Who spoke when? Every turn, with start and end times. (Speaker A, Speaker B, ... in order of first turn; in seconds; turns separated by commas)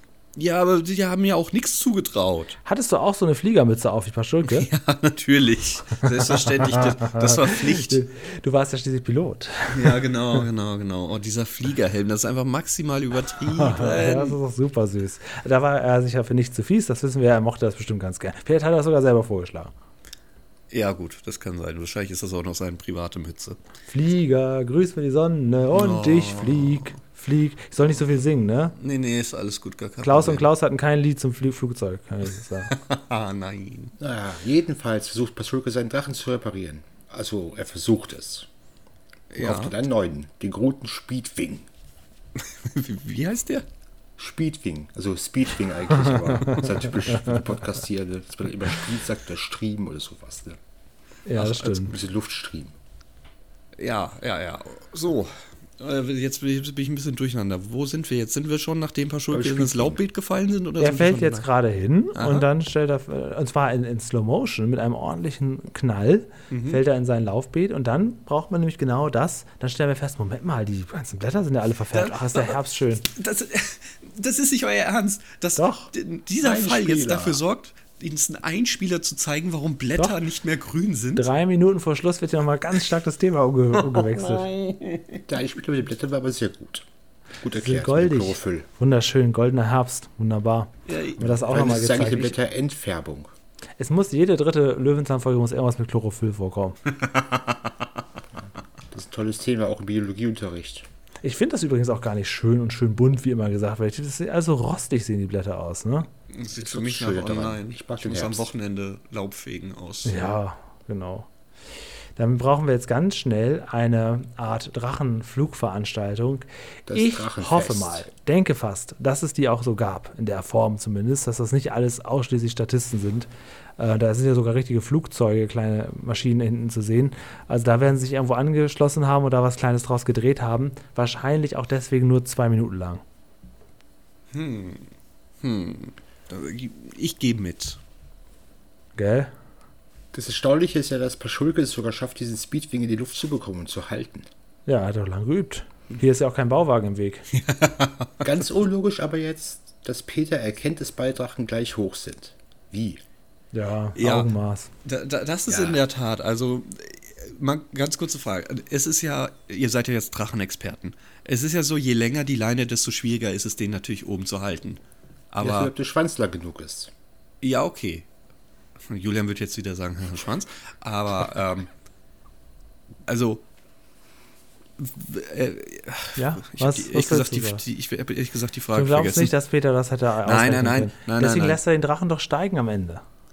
Speaker A: 0.4-2.6, Speaker B: 2.6-4.7, Speaker A: 4.5-8.0, Speaker B: 6.2-10.1, Speaker A: 9.7-14.4, Speaker B: 13.5-19.7, Speaker A: 20.7-23.6, Speaker B: 23.9-28.8, Speaker A: 25.7-27.0, Speaker A: 28.8-30.5, Speaker B: 30.0-32.7, Speaker A: 32.7-34.0, Speaker C: 34.0-38.5, Speaker A: 39.3-39.7, Speaker C: 39.4-41.7, Speaker A: 42.4-43.6, Speaker C: 44.2-50.6, Speaker B: 46.1-46.7, Speaker B: 51.3-51.9, Speaker A: 51.4-51.8, Speaker C: 51.7-52.8, Speaker A: 53.8-61.5, Speaker C: 59.3-60.0, Speaker B: 60.8-73.1, Speaker A: 62.1-62.5, Speaker A: 66.5-66.8, Speaker A: 71.9-81.3, Speaker B: 75.6-75.9, Speaker C: 76.4-77.4, Speaker B: 81.2-84.5, Speaker A: 83.8-85.2, Speaker C: 85.3-86.9, Speaker C: 87.4-88.7, Speaker B: 87.5-92.4, Speaker A: 90.9-91.2, Speaker C: 91.2-93.3, Speaker B: 93.8-96.8, Speaker A: 97.0-97.7, Speaker C: 98.9-100.9, Speaker B: 101.2-106.1, Speaker A: 106.3-110.4, Speaker C: 106.6-108.5, Speaker B: 110.1-111.3, Speaker B: 112.2-133.0, Speaker C: 116.9-118.1, Speaker A: 134.3-134.9, Speaker A: 135.4-137.8, Speaker B: 139.0-139.3, Speaker C: 140.1-144.3, Speaker B: 144.7-147.3, Speaker A: 147.3-148.3, Speaker C: 148.2-153.0, Speaker B: 153.5-154.7, Speaker A: 154.0-154.3, Speaker A: 154.8-164.8, Speaker C: 155.5-155.8, Speaker A: 165.3-165.7, Speaker C: 165.4-166.9, Speaker A: 167.4-168.1, Speaker A: 168.9-171.7, Speaker A: 173.1-173.4, Speaker A: 174.8-179.3, Speaker B: 176.2-177.6, Speaker B: 178.7-183.0, Speaker A: 180.2-181.6